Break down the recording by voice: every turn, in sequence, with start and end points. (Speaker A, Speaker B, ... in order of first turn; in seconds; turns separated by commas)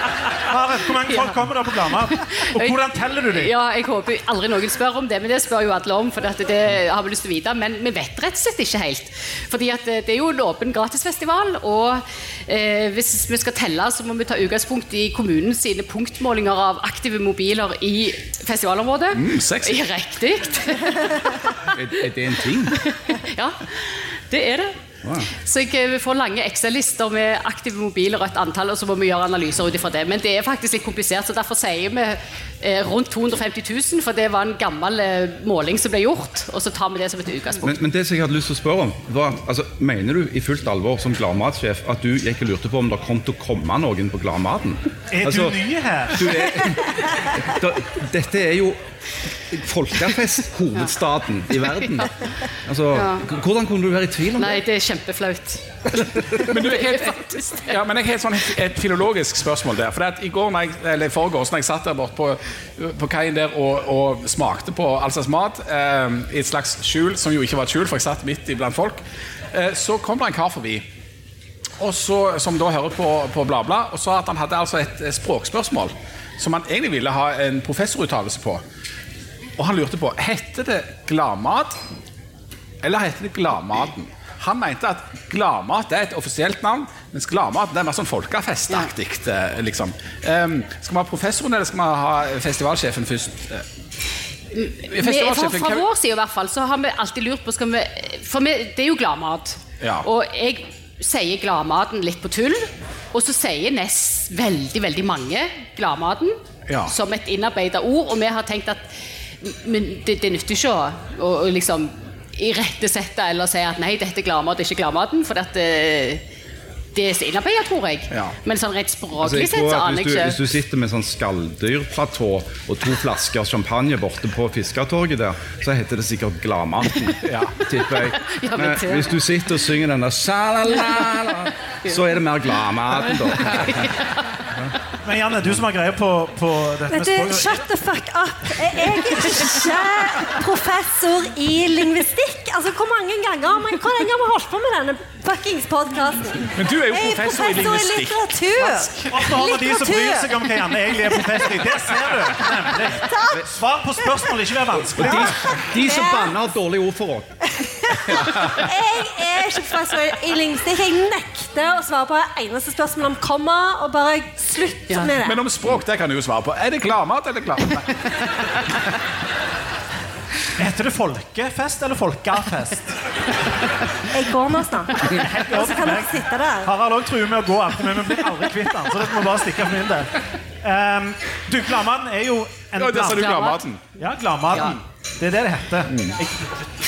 Speaker A: 0.4-3.5, Speaker B: 1.1-1.4, Speaker B: 2.1-2.8, Speaker B: 3.3-21.6, Speaker C: 19.1-19.8, Speaker D: 21.7-22.8, Speaker B: 22.7-24.7, Speaker D: 25.0-25.3, Speaker B: 25.3-37.8, Speaker D: 37.6-45.6, Speaker A: 45.1-46.3, Speaker D: 46.1-48.8, Speaker D: 49.5-54.6, Speaker B: 52.9-53.2, Speaker B: 54.4-57.7, Speaker C: 56.4-69.0, Speaker C: 69.5-70.8, Speaker C: 71.8-78.6, Speaker C: 79.6-81.8, Speaker C: 82.8-93.7, Speaker B: 94.5-116.2, Speaker C: 94.7-95.8, Speaker C: 99.8-100.1, Speaker C: 106.7-106.9, Speaker B: 116.9-120.4, Speaker D: 119.2-133.9, Speaker C: 127.2-127.6, Speaker B: 128.0-129.2, Speaker A: 135.0-137.6, Speaker E: 136.9-150.5, Speaker C: 146.5-149.3, Speaker A: 149.1-155.4, Speaker E: 153.0-153.4, Speaker D: 155.0-157.4, Speaker E: 155.0-156.3, Speaker E: 157.6-165.4, Speaker D: 158.0-158.5, Speaker C: 165.1-167.8, Speaker A: 170.6-172.9, Speaker E: 174.1-176.7, Speaker A: 175.1-186.7, Speaker C: 182.8-183.8, Speaker B: 183.2-183.6, Speaker C: 185.9-186.2